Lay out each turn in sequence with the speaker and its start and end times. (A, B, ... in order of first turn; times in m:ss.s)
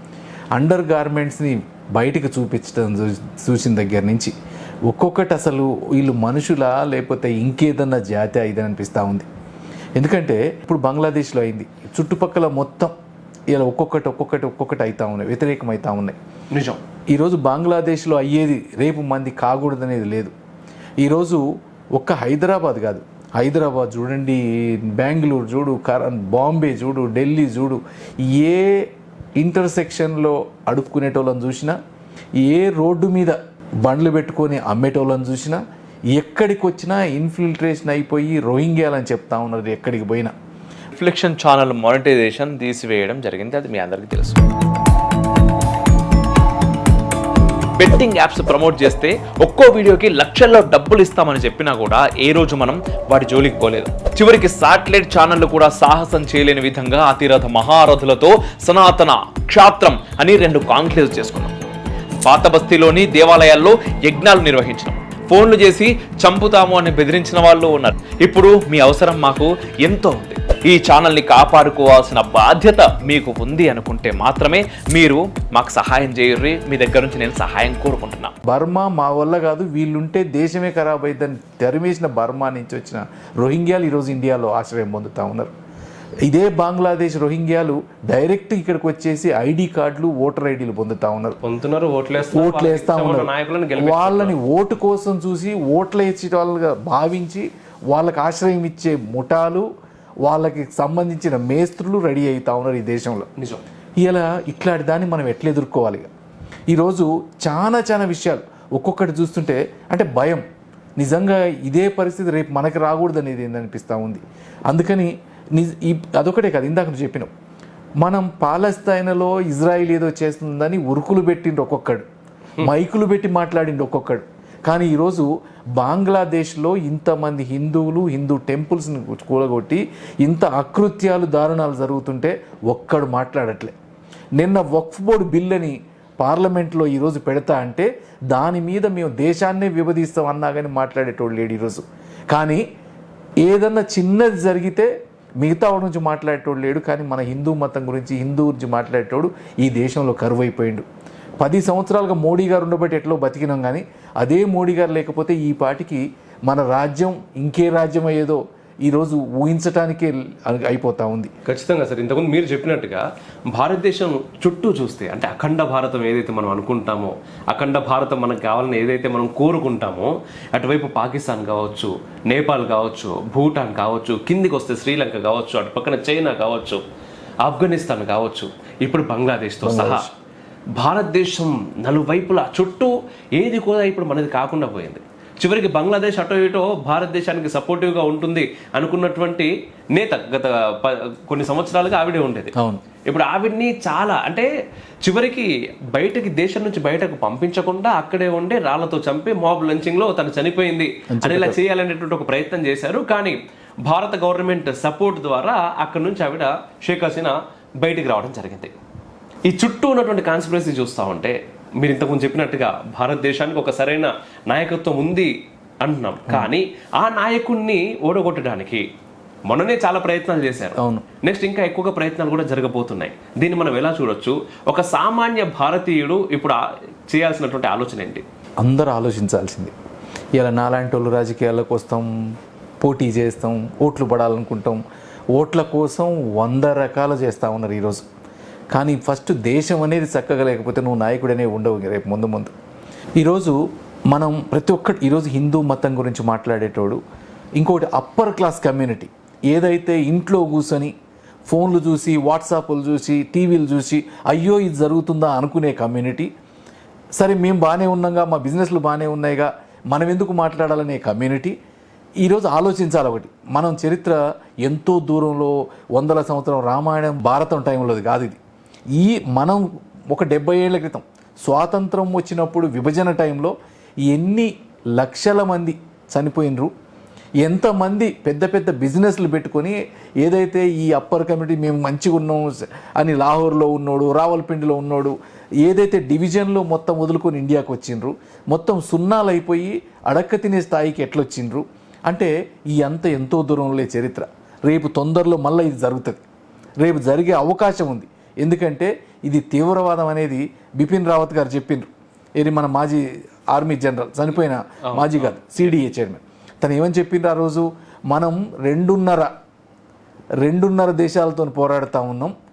0:00.5-0:04.3 A
0:04.9-0:09.3 A
0:10.0-0:12.9 A
0:13.5-0:16.2 A
0:16.5-0:16.8 B
0:17.1-0:20.3 A
0:21.0-0:31.8 A
0:32.4-0:40.3 A
0:40.9-0:44.5 C
0:47.8-1:01.6 C
1:02.2-1:18.3 C
1:18.4-1:25.5 A
1:26.2-1:31.4 A
1:31.4-1:34.4 B
1:32.2-1:39.6 A
1:40.2-1:43.3 A
1:43.4-1:43.6 B
1:44.0-1:46.1 A
1:46.7-1:50.4 A
1:51.0-1:57.3 A
1:58.0-2:02.0 A
2:02.6-2:13.7 A
2:14.4-2:22.6 A
2:23.4-2:24.9 A
2:25.4-2:30.8 A
2:31.4-2:41.3 A
2:41.4-2:56.8 B
2:57.4-3:00.0 B
2:59.6-3:00.1 A
3:00.8-3:12.5 B
3:12.5-3:12.8 A
3:13.1-3:14.5 B
3:15.0-3:28.7 B
3:21.1-3:21.6 A
3:29.4-3:38.8 B
3:39.5-3:48.2 B
3:40.8-3:41.0 A
3:48.6-3:49.7 A
3:50.3-3:52.1 A
3:52.8-3:54.8 A
3:55.3-3:58.0 A
3:58.7-4:02.5 A
4:03.2-4:07.0 A
4:07.6-4:10.9 A
4:11.5-4:16.3 A
4:17.1-4:21.6 A
4:22.2-4:28.4 A
4:28.9-4:33.5 A
4:34.1-4:36.7 A
4:37.4-4:56.2 A
4:56.8-5:09.3 A
5:04.9-5:05.4 B
5:10.4-5:12.3 A